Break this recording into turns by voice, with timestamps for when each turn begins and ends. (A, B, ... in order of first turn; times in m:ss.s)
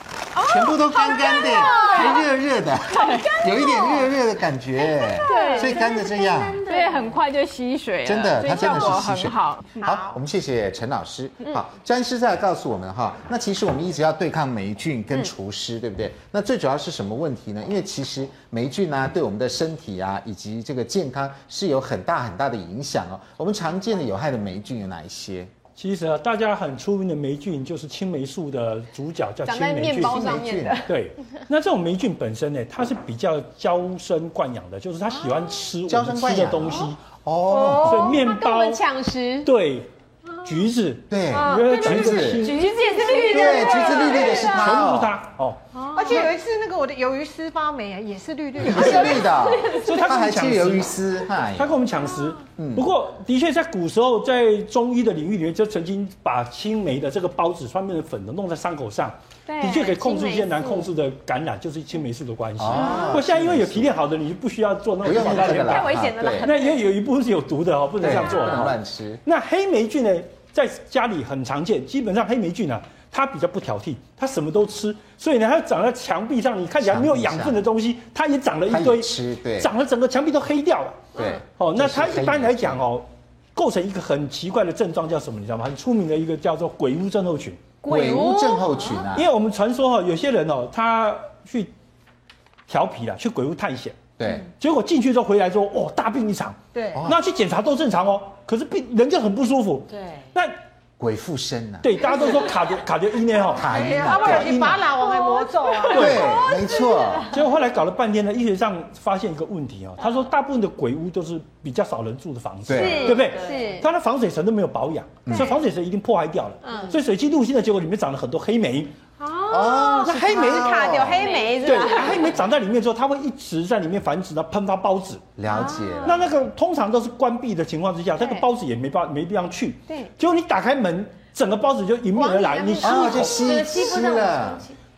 0:00.4-0:02.3 A
0:00.4-0:06.6 B
0:01.8-0:02.2 C
0:02.9-0:03.3 C
0:03.0-0:04.1 A
0:04.8-0:07.2 A
0:05.3-0:05.6 C
0:05.4-0:05.7 D
0:06.7-0:09.7 C
0:08.0-0:25.5 B
0:09.8-0:10.2 A
0:25.8-0:30.2 E
0:29.4-0:30.9 A
0:30.0-0:30.9 B
0:30.8-0:37.0 E
0:35.1-0:35.5 A
0:35.8-0:38.2 B
0:37.5-0:39.5 A
0:37.8-0:38.8 E
0:39.4-0:39.9 E
0:40.4-0:42.8 E
0:41.1-0:42.5 B
0:41.3-0:44.6 A
0:42.6-0:44.6 D
0:43.2-0:45.1 B
0:43.3-0:43.8 E
0:44.4-0:45.6 E
0:45.7-0:46.3 A
0:45.9-0:49.4 D
0:48.6-0:51.8 B
0:48.6-0:51.0 E
0:51.5-1:27.6 E
0:52.6-0:52.9 B
0:59.5-1:00.9 A
1:02.6-1:03.9 B
1:02.7-1:03.2 A
1:05.0-1:06.5 B
1:05.1-1:06.8 A
1:08.0-1:09.2 B
1:08.0-1:08.5 A
1:16.8-1:17.6 B
1:18.7-1:19.7 B
1:21.2-1:22.8 B
1:27.8-1:28.8 A
1:27.8-1:29.3 B
1:29.1-1:31.7 E
1:32.7-1:40.6 E
1:34.2-1:34.5 B
1:36.8-1:37.0 A
1:36.9-1:37.2 B
1:41.0-1:42.2 B
1:41.8-1:44.9 E
1:43.5-1:44.8 B
1:43.6-1:46.6 D
1:45.1-1:47.2 A
1:45.9-1:46.3 E
1:45.9-1:47.4 B
1:47.3-1:58.9 E
1:52.7-1:53.2 B
1:52.7-1:53.9 A
1:55.3-1:55.6 B
1:56.6-1:57.0 A
1:59.2-2:02.4 A
1:59.5-2:01.7 B
2:00.1-2:00.6 E
2:01.2-2:01.5 C
2:01.6-2:05.2 E
2:05.4-2:06.3 B
2:05.5-2:06.2 A
2:06.0-2:13.5 E
2:08.2-2:08.4 A
2:12.1-2:14.6 A
2:12.8-2:14.7 B